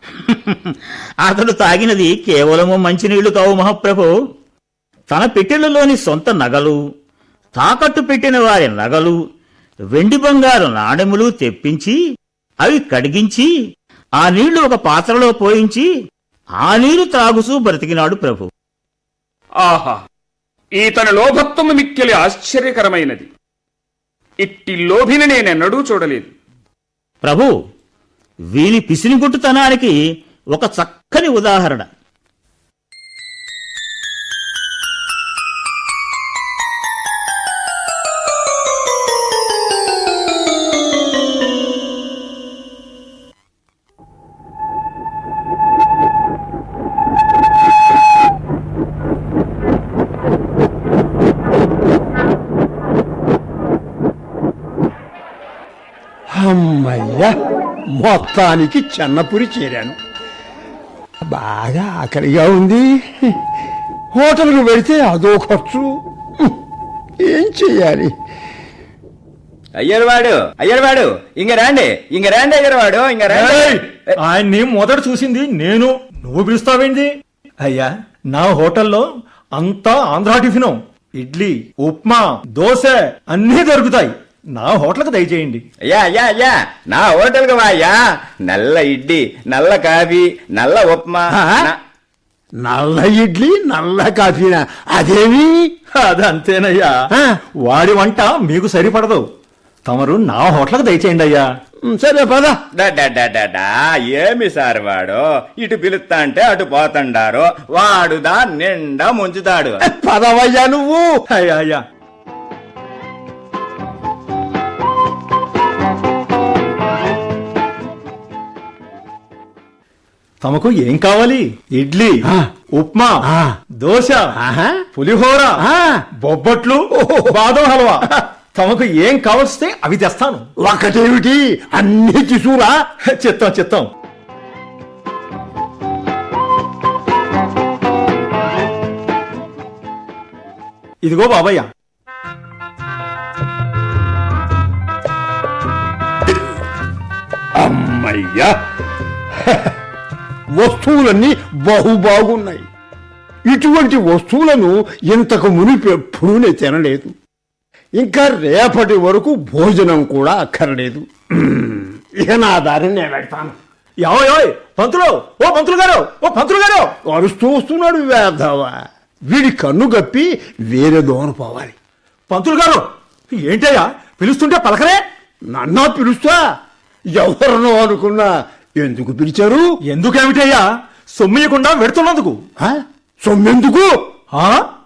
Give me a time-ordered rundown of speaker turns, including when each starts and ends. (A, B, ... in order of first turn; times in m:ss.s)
0:00.2-0:04.1 A
0:05.1-0:06.8 A
0:07.6-0:09.2 A
0:09.9-0:12.0 A
0:12.6-0:13.5 A
0:14.2-0:15.9 A
0:16.6-0:18.5 A
0:19.6-0:20.0 B
0:20.8-0:23.2 B
0:24.4-0:26.3 B
0:27.2-0:27.5 A
0:28.5-0:29.9 A
0:30.5-0:31.9 A
0:56.3-0:57.3 C
0:57.9-1:00.0 C
1:01.3-1:03.4 C
1:04.2-1:05.9 C
1:07.2-1:08.1 C
1:09.8-1:14.1 D
1:13.3-1:17.1 E
1:17.6-1:25.6 E
1:25.9-1:31.8 D
1:31.3-1:31.6 C
1:32.6-1:35.5 C
1:35.9-1:36.9 E
1:37.1-1:37.4 C
1:37.6-1:39.3 E
1:39.9-1:41.4 E
1:41.9-1:42.6 C
1:42.8-1:49.8 D
1:49.8-1:51.1 C
1:51.3-1:51.8 E
2:00.4-2:02.2 E
2:02.8-2:03.2 E
2:03.3-2:03.5 C
2:03.8-2:04.3 E
2:04.3-2:04.8 C
2:05.0-2:05.6 E
2:05.6-2:06.0 C
2:06.2-2:10.5 E
2:07.0-2:07.3 C
2:10.6-2:12.7 C
2:13.1-2:13.9 E
2:21.0-2:21.7 E
2:27.6-2:28.5 C
2:29.3-2:29.8 C
2:30.6-2:32.6 C
2:33.5-2:37.2 C
2:38.0-2:43.6 C
2:44.0-2:46.9 E
2:47.1-2:48.8 C
2:49.3-2:51.8 C
2:52.3-2:52.9 E
2:53.4-2:55.0 E
2:55.5-2:56.4 C
2:57.2-2:59.7 C
2:59.9-3:02.4 E
3:02.6-3:03.9 C
3:04.3-3:04.7 E